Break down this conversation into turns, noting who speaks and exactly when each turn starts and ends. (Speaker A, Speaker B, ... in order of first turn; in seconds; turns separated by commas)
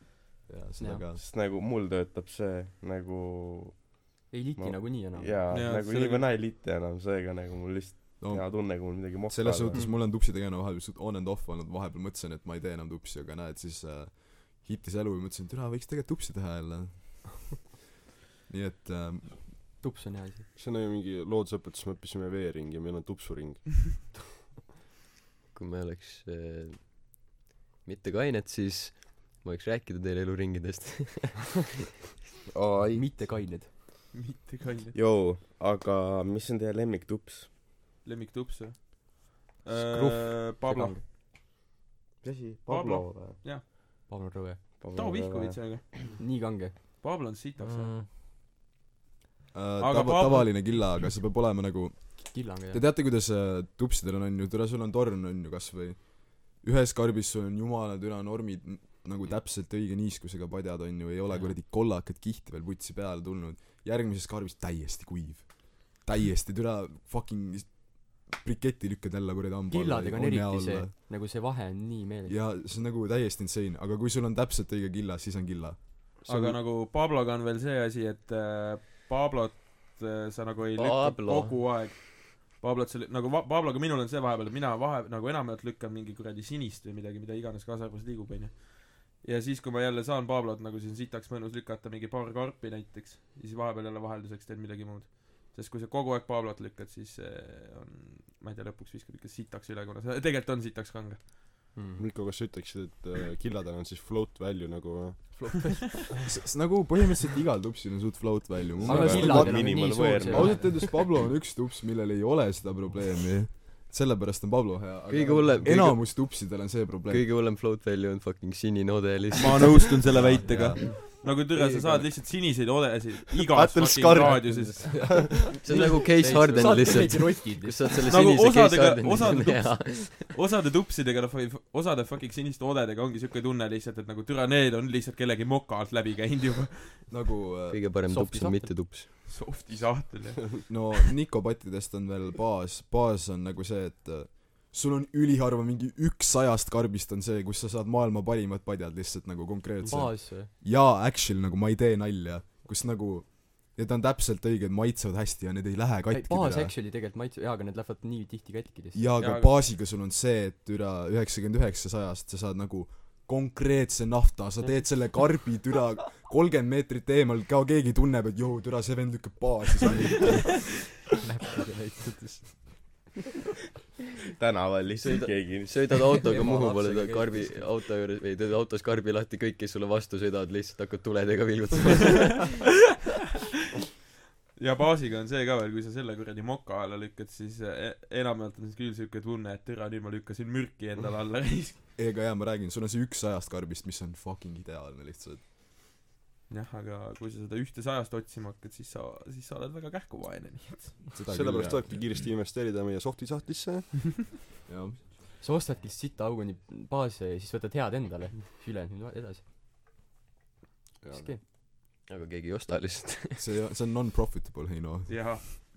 Speaker A: 0.5-1.2, Speaker B: 0.8-1.1, Speaker C: 1.1-4.0, Speaker B: 4.3-5.4, Speaker C: 4.6-9.9, Speaker D: 5.5-6.3, Speaker A: 8.2-17.6, Speaker A: 18.5-19.6, Speaker B: 19.8-20.5, Speaker E: 20.6-23.9, Speaker F: 25.5-27.3, Speaker F: 27.8-31.6, Speaker C: 32.5-33.1, Speaker B: 32.9-33.7, Speaker D: 34.1-35.0, Speaker C: 34.9-37.5, Speaker D: 38.0-41.0, Speaker B: 39.7-41.0, Speaker C: 42.2-43.4, Speaker D: 42.7-43.6, Speaker B: 44.1-44.8, Speaker C: 44.8-45.8, Speaker D: 44.9-46.1, Speaker B: 46.1-46.8, Speaker D: 47.0-47.9, Speaker G: 47.6-48.1, Speaker A: 49.5-70.9, Speaker D: 49.8-50.9, Speaker B: 52.3-52.8, Speaker B: 61.3-61.5, Speaker B: 69.7-72.4, Speaker A: 72.3-76.6, Speaker D: 76.2-101.4, Speaker F: 80.8-81.6, Speaker B: 101.8-102.0, Speaker E: 102.0-105.6, Speaker B: 105.4-106.0, Speaker A: 106.2-109.8, Speaker B: 108.8-110.8, Speaker C: 108.9-110.9, Speaker A: 110.3-117.3, Speaker F: 115.1-120.1, Speaker D: 119.4-125.3, Speaker A: 120.1-122.1, Speaker E: 123.5-125.4, Speaker F: 125.6-130.3, Speaker B: 125.7-128.1, Speaker G: 126.6-127.0, Speaker D: 128.1-137.2, Speaker A: 137.1-138.1, Speaker F: 137.7-139.1, Speaker B: 138.1-138.8, Speaker D: 139.3-140.7, Speaker A: 140.7-156.7, Speaker B: 149.9-150.5, Speaker B: 156.1-159.1, Speaker A: 158.9-171.0, Speaker D: 159.2-159.7, Speaker G: 171.3-172.8, Speaker C: 174.4-176.2, Speaker F: 175.0-182.7, Speaker G: 176.2-177.8, Speaker D: 184.6-191.8, Speaker A: 192.0-195.4, Speaker D: 196.5-201.2, Speaker A: 201.2-202.2, Speaker E: 201.3-204.0, Speaker A: 204.7-205.0, Speaker B: 205.4-209.4, Speaker E: 211.0-211.4, Speaker B: 211.1-211.4, Speaker F: 212.1-213.4, Speaker A: 213.4-215.6, Speaker D: 215.1-215.4